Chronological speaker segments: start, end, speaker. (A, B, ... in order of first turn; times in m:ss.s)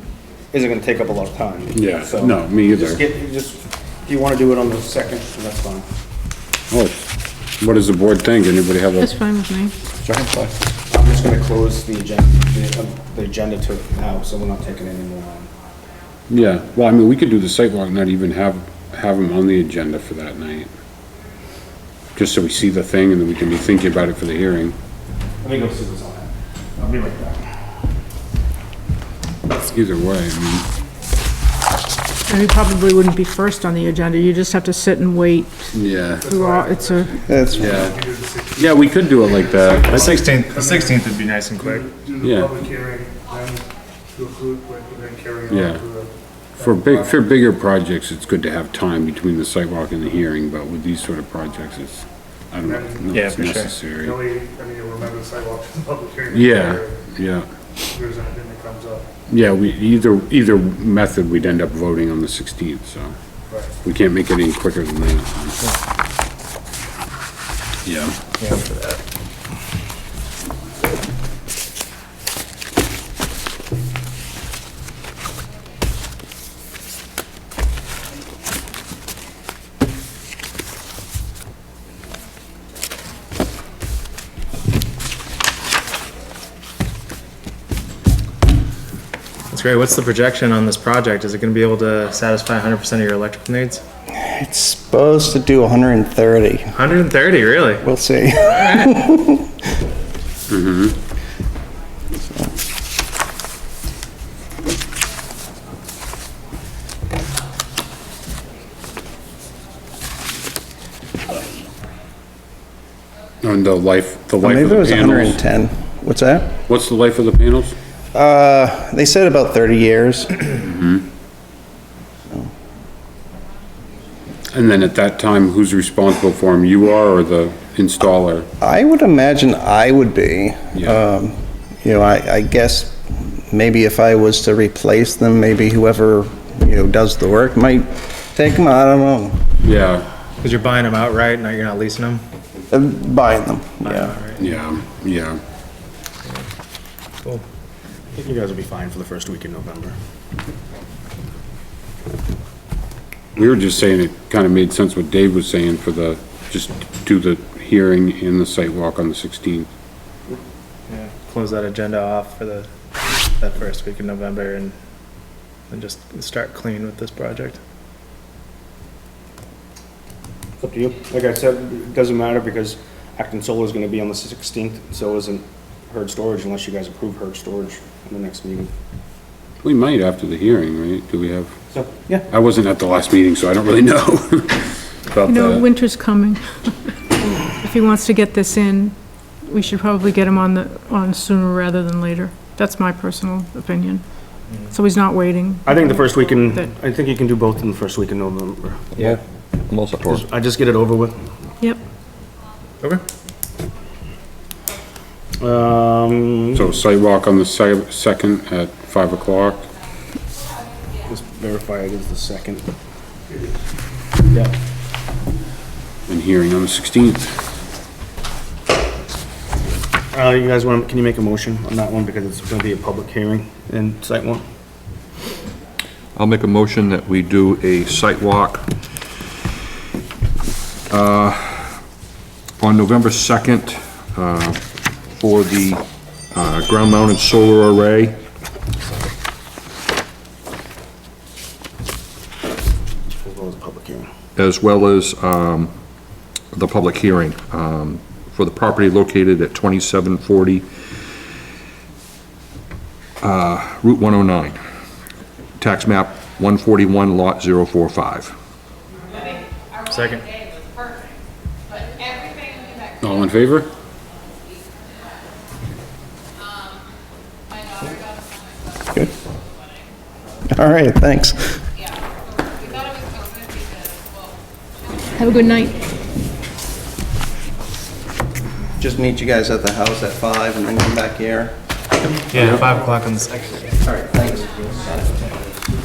0:00.5-0:05.9 A
0:01.7-0:03.0 B
0:06.7-0:07.0 B
0:07.6-0:09.2 B
0:09.0-0:09.8 C
0:10.0-0:10.5 D
0:10.9-0:15.5 A
0:16.3-0:20.7 B
0:22.2-0:24.8 B
0:25.4-0:27.5 A
0:29.7-0:30.7 B
0:32.3-0:37.3 C
0:35.7-0:36.3 B
0:36.2-0:47.2 E
0:37.3-0:37.8 F
0:37.5-0:38.0 B
0:38.6-0:39.9 B
0:39.8-0:41.9 G
0:42.2-0:42.5 B
0:45.5-0:45.8 B
0:46.6-0:54.2 B
0:52.6-0:57.0 E
0:53.1-0:53.7 G
0:56.3-0:57.5 B
0:57.9-0:59.1 E
0:59.3-1:03.2 B
1:03.8-1:05.6 B
1:07.8-1:08.2 B
1:08.4-1:08.9 G
1:29.5-1:33.8 G
1:34.2-1:36.7 F
1:36.7-1:39.0 G
1:37.8-1:39.5 F
1:40.5-1:41.0 B
1:42.2-1:42.5 F
1:53.4-1:55.4 B
1:54.4-1:56.5 F
1:56.6-1:57.8 B
1:58.1-2:00.6 F
2:00.5-2:01.1 B
2:04.5-2:08.5 B
2:08.6-2:19.4 F
2:10.7-2:11.0 B
2:19.6-2:20.1 B
2:20.4-2:22.2 G
2:22.7-2:24.2 F
2:23.8-2:24.5 G
2:24.3-2:25.4 B
2:28.1-2:30.0 A
2:33.4-2:39.7 B
2:40.9-2:44.7 G
2:45.7-2:47.6 G
2:50.6-2:58.7 A
2:59.6-3:01.5 B
3:01.7-3:02.3 A
3:02.3-3:05.6 B
3:05.2-3:14.0 C
3:14.7-3:16.7 C
3:15.6-3:19.1 A
3:19.0-3:20.2 D
3:20.0-3:21.2 A
3:25.4-3:26.7 A
3:26.5-3:29.7 B
3:31.1-3:32.7 A
3:33.3-3:33.6 E
3:36.1-3:37.4 B
3:40.1-3:44.4 A
3:46.2-3:48.7 D
3:50.9-3:51.8 D
3:52.6-3:58.2 D
4:03.1-4:04.1 A
4:04.4-4:05.8 D
4:06.5-4:10.7 D
4:13.2-4:14.6 D
4:15.6-4:18.4 D
4:19.9-4:20.2 G
4:23.0-4:23.7 B
4:30.5-4:31.6 F
4:35.2-4:35.8 C
4:38.8-4:41.5 F
4:42.3-4:43.4 G
4:42.6-4:43.6 E
4:43.8-4:45.2 F